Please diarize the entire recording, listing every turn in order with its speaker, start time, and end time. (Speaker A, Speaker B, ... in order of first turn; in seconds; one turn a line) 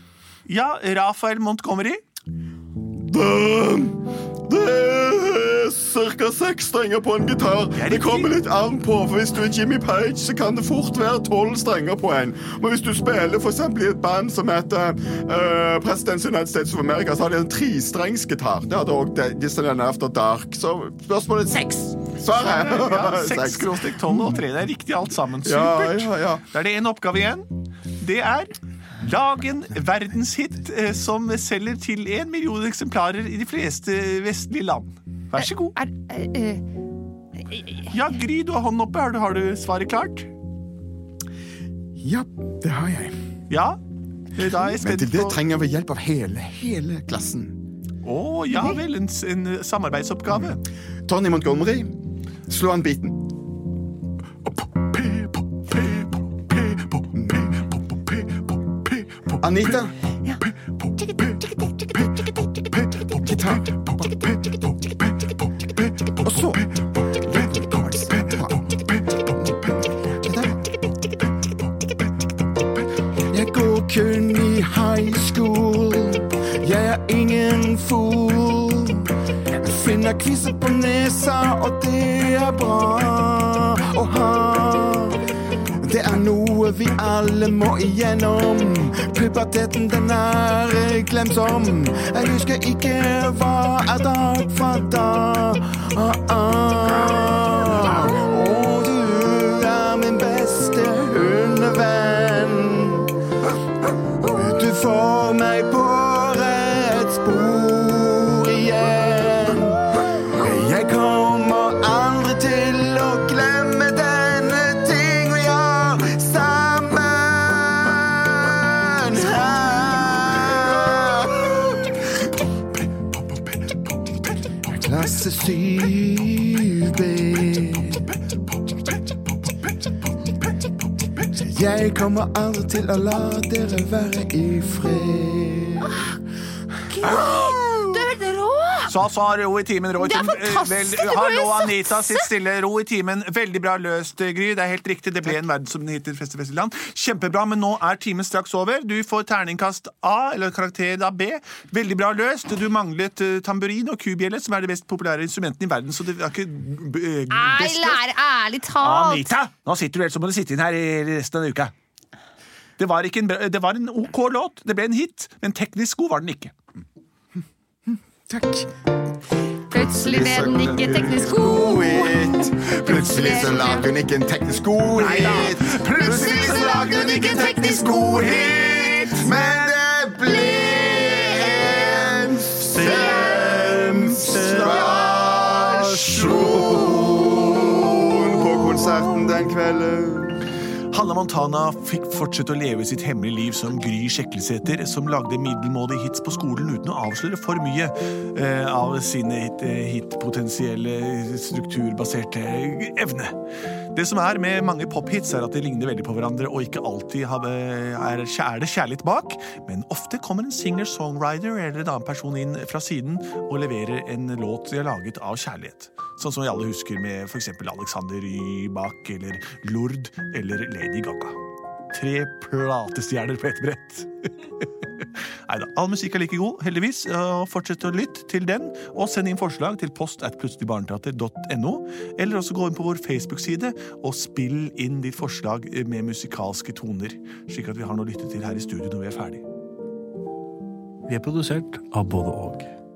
Speaker A: 0.5-2.0
Speaker B: 3.0-24.4
Speaker A: 7.7-8.3
Speaker A: 22.2-35.8
Speaker B: 25.4-26.4
Speaker C: 35.4-36.6
Speaker C: 37.4-37.9
Speaker A: 37.9-40.3
Speaker B: 42.0-43.1
Speaker A: 43.5-43.8
Speaker A: 44.3-45.4
Speaker B: 44.6-47.5
Speaker A: 48.0-50.6
Speaker B: 51.0-51.9
Speaker B: 52.5-53.3
Speaker A: 55.0-57.1
Speaker B: 57.1-57.5
Speaker A: 57.7-59.8
Speaker B: 59.4-60.0
Speaker B: 63.0-64.3
Speaker B: 66.2-70.7
Speaker B: 73.3-85.2
Speaker B: 85.8-103.1
Speaker B: 104.2-122.3
Speaker B: 124.6-128.1
Speaker B: 131.3-136.1
Speaker C: 136.9-138.9
Speaker B: 137.0-137.6
Speaker A: 138.8-158.0
Speaker C: 140.0-142.3
Speaker C: 157.3-159.3
Speaker A: 158.8-161.7
Speaker A: 162.8-166.5
Speaker B: 167.9-168.7
Speaker C: 169.7-173.9
Speaker B: 169.7-190.5
Speaker A: 174.9-179.5
Speaker C: 175.0-178.6
Speaker A: 182.7-187.8
Speaker D: 182.8-183.1
Speaker D: 183.9-184.6
Speaker A: 190.9-203.3
Speaker A: 203.9-221.4
Speaker A: 221.9-239.4
Speaker D: 241.1-242.7